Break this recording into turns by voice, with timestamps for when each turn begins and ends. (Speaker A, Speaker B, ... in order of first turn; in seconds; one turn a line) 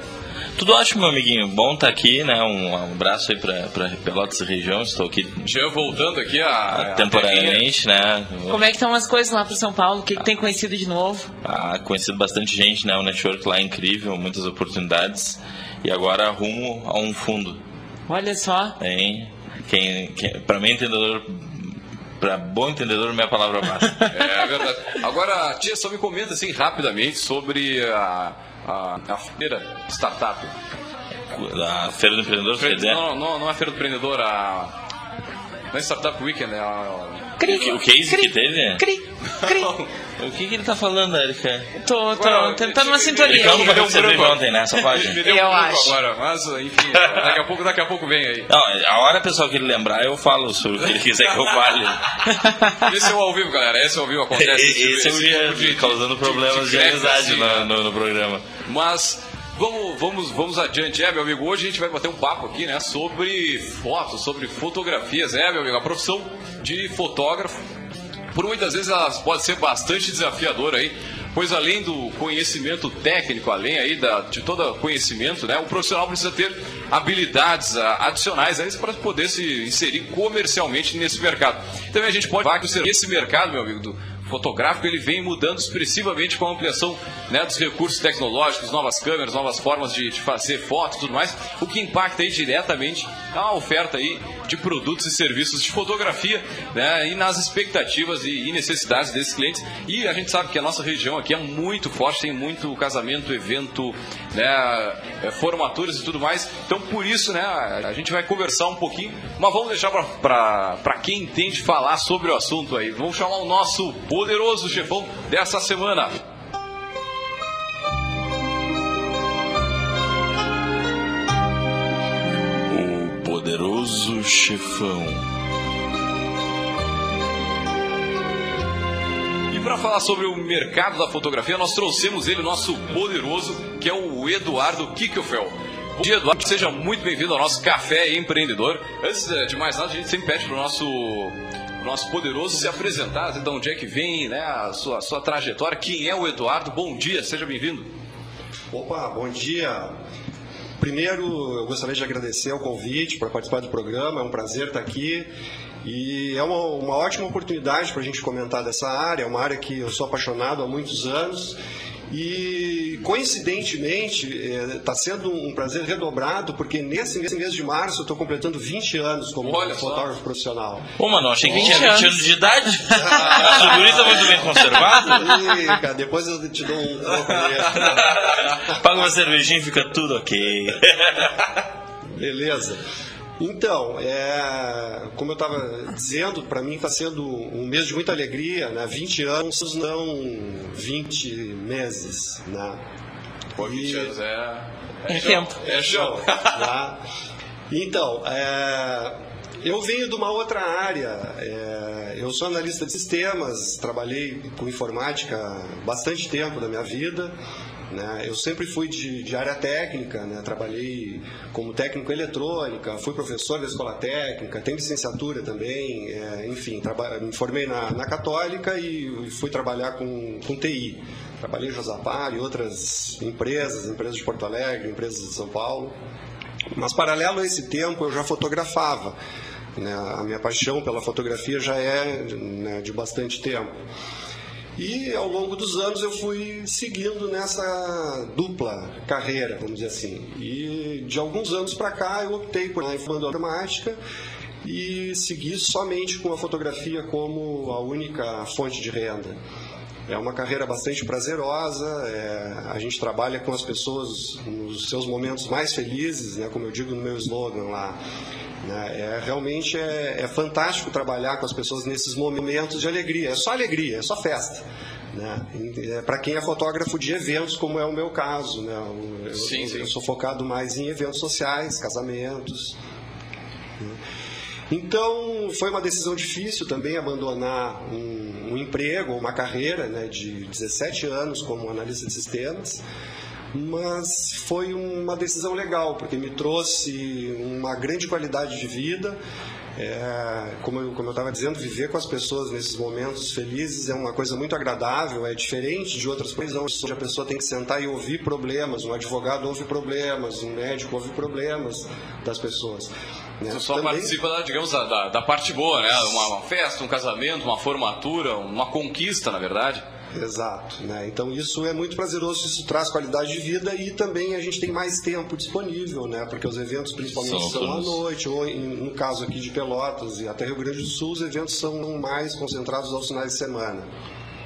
Speaker A: 0.6-5.5
Speaker B: 5.4-7.6
Speaker A: 6.7-8.7
Speaker C: 8.5-11.3
Speaker A: 11.4-17.6
Speaker C: 18.1-18.8
Speaker A: 18.8-24.0
Speaker B: 24.1-30.5
Speaker A: 31.3-33.0
Speaker B: 32.6-34.7
Speaker B: 35.7-37.5
Speaker C: 37.4-39.8
Speaker A: 37.5-38.8
Speaker B: 39.4-39.9
Speaker A: 40.2-41.7
Speaker C: 41.8-43.9
Speaker B: 42.1-48.5
Speaker A: 43.2-45.2
Speaker C: 45.2-46.0
Speaker A: 46.9-47.4
Speaker A: 48.5-52.0
Speaker C: 52.3-52.7
Speaker B: 52.8-57.7
Speaker A: 54.3-58.4
Speaker B: 58.6-67.6
Speaker B: 68.3-116.2
Speaker A: 122.7-125.2
Speaker B: 129.5-147.9
Speaker D: 148.7-149.9
Speaker D: 150.8-155.3
Speaker D: 155.8-161.6
Speaker D: 162.1-170.9
Speaker B: 169.4-170.1
Speaker A: 171.0-175.2
Speaker C: 171.4-172.3
Speaker C: 172.9-173.7
Speaker D: 173.4-174.1
Speaker D: 175.0-178.1
Speaker A: 177.7-181.5
Speaker D: 182.1-182.8
Speaker D: 183.4-192.8
Speaker B: 193.6-196.6
Speaker D: 193.6-194.1
Speaker C: 195.1-195.6
Speaker D: 195.6-197.0
Speaker D: 197.7-207.4
Speaker D: 207.9-225.9
Speaker D: 226.7-229.2
Speaker D: 229.8-233.7
Speaker D: 234.8-244.0
Speaker D: 244.6-249.4
Speaker D: 250.1-258.0
Speaker D: 258.6-272.8
Speaker B: 269.3-269.9
Speaker D: 274.7-282.8
Speaker D: 283.5-289.2
Speaker D: 289.8-304.2
Speaker B: 303.5-309.8
Speaker D: 310.1-323.9
Speaker A: 317.1-318.0